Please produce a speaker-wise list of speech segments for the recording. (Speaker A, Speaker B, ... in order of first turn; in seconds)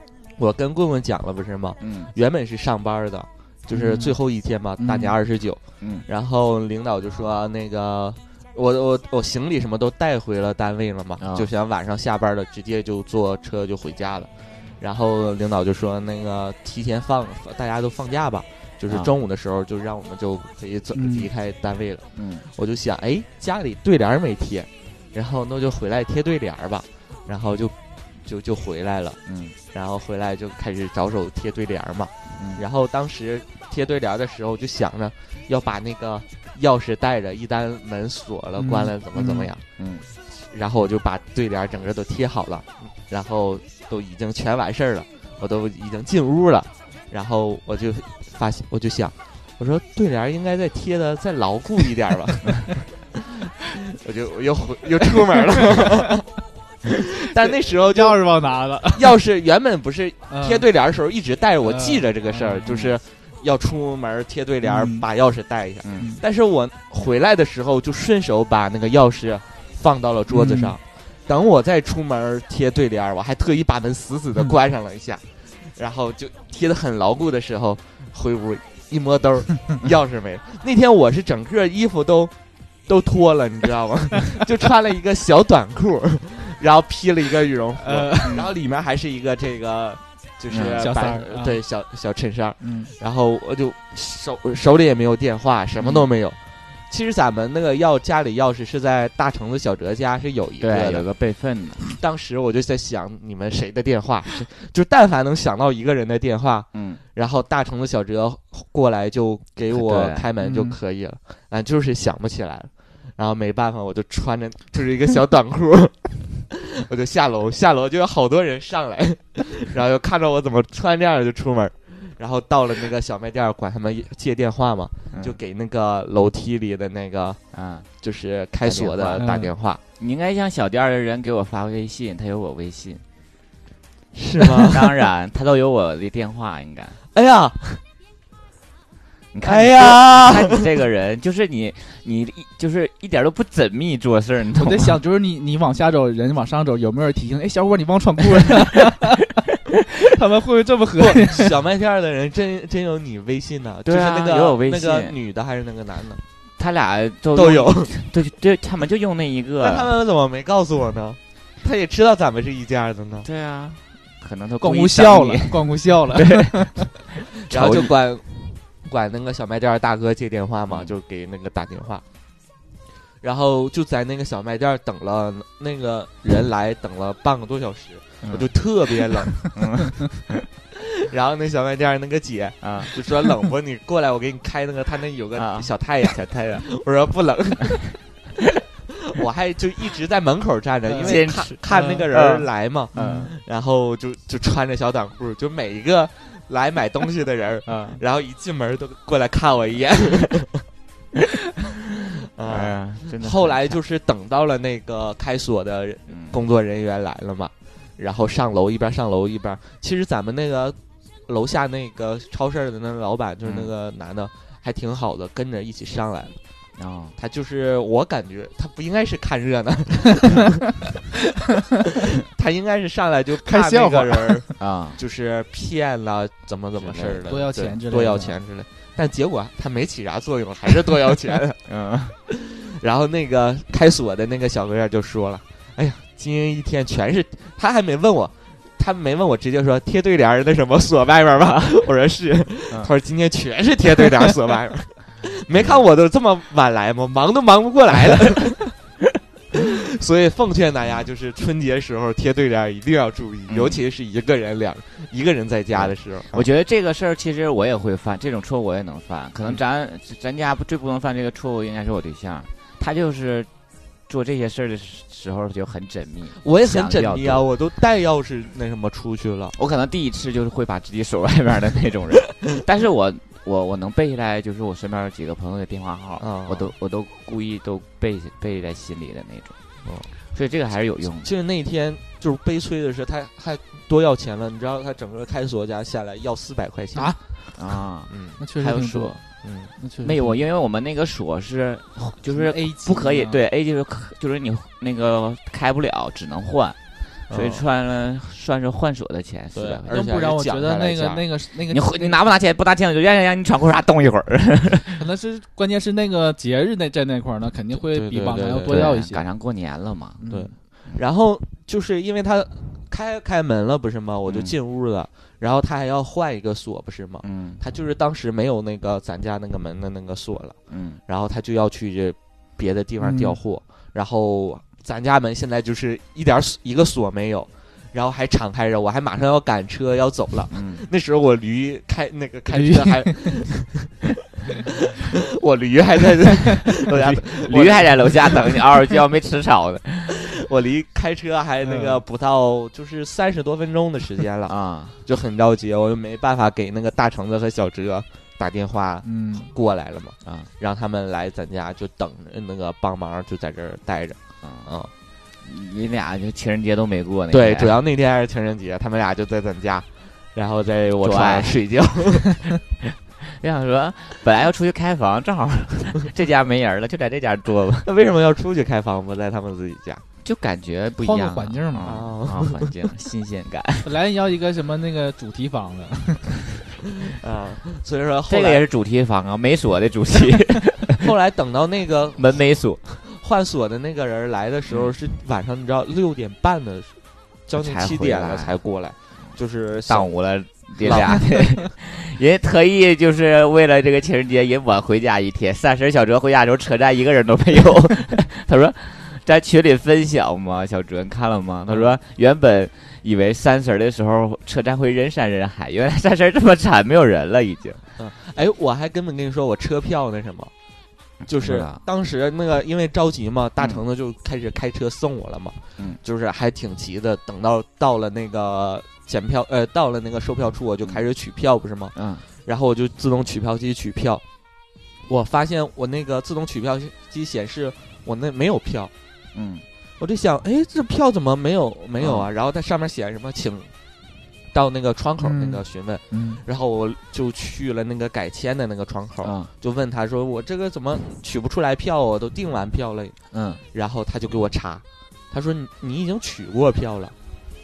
Speaker A: 0.4-29.2, 29.7-39.6, 40.4-52.9, 53.8-56.2, 56.9-58.2, 59.0-75.2, 75.8-82.3, 82.9-96.4, 96.9-101.1, 101.9-127.4, 128.0-129.8, 134.1-135.1, 137.1-137.8, 139.4-140.7, 151.0-156.2, 157.3-157.9, 159.6-163.3, 167.5-172.0, 173.2-179.6, 181.0-188.0, 189.1-200.7, 202.3-216.4, 217.2-220.8, 222.2-231.6, 232.3-248.7, 249.5-256.5, 266.4-269.6, 276.2-276.7, 279.8-280.1, 281.2-287.2, 288.1-288.4, 289.4-289.7, 297.3-297.6, 299.5-301.3, 307.8-308.9, 310.3-334.0, 334.6-338.6, 340.1-354.9, 357.3-362.4, 367.8-370.0, 371.8-372.8, 377.1-378.6, 381.0-387.0, 387.5-390.1, 390.8-391.4, 401.7-402.0, 408.0-410.5, 411.3-424.2, 425.1-428.9, 430.0-433.7, 434.5-443.2, 443.7-447.1
Speaker B: 1.8-2.1, 5.8-6.1, 11.2-11.5, 22.2-22.5, 29.3-29.6, 32.4-32.6, 39.8-40.1, 62.7-62.9, 90.5-90.9, 95.8-96.1, 100.6-101.8, 106.7-107.0, 109.7-110.3, 125.1-125.4, 127.5-127.9, 128.6-129.3, 130.0-133.0, 134.5-137.0, 139.3-145.0, 153.8-155.2, 156.6-159.9, 163.2-166.9, 167.5-167.9, 170.7-171.0, 178.2-178.5, 179.5-180.4, 182.6-182.9, 185.3-186.6, 191.0-193.3, 197.7-198.0, 202.5-203.8, 206.1-206.4, 213.4-213.7, 216.8-217.2, 224.6-225.0, 226.8-227.3, 231.7-232.2, 245.6-245.8, 253.5-253.8, 255.7-263.5, 264.1-267.4, 269.6-279.6, 280.3-281.3, 287.6-289.2, 290.0-296.8, 297.3-299.9, 301.7-305.0, 308.7-310.2, 314.3-314.5, 317.2-317.6, 320.7-321.0, 330.5-330.9, 336.9-340.3, 344.5-344.9, 354.4-354.7, 355.4-357.7, 361.0-361.6, 363.2-367.9, 370.2-373.9, 378.3-381.0, 382.2-382.8, 387.5-388.6, 389.9-407.8, 411.3-411.8, 421.9-422.2, 429.3-429.6, 432.0-432.3, 439.2-439.5, 443.3-443.6
Speaker C: 3.7-4.2, 4.8-5.2, 20.9-21.3, 38.6-39.5, 57.4-59.1, 60.3-60.7, 61.6-62.7, 64.6-65.0, 70.3-70.8, 87.8-88.5, 90.8-91.6, 92.6-92.9, 110.4-110.8, 129.2-129.5, 144.6-149.3, 149.9-151.5, 164.6-166.8, 190.9-192.0, 192.9-193.3, 223.5-224.5, 227.3-228.4, 288.4-289.2, 289.8-290.4, 292.3-293.4, 299.9-302.2, 305.0-309.3, 310.2-310.5, 323.0-323.4, 332.5-333.4, 341.6-342.0, 349.1-349.5, 371.0-371.9, 373.8-376.4, 435.2-435.6, 436.1-436.4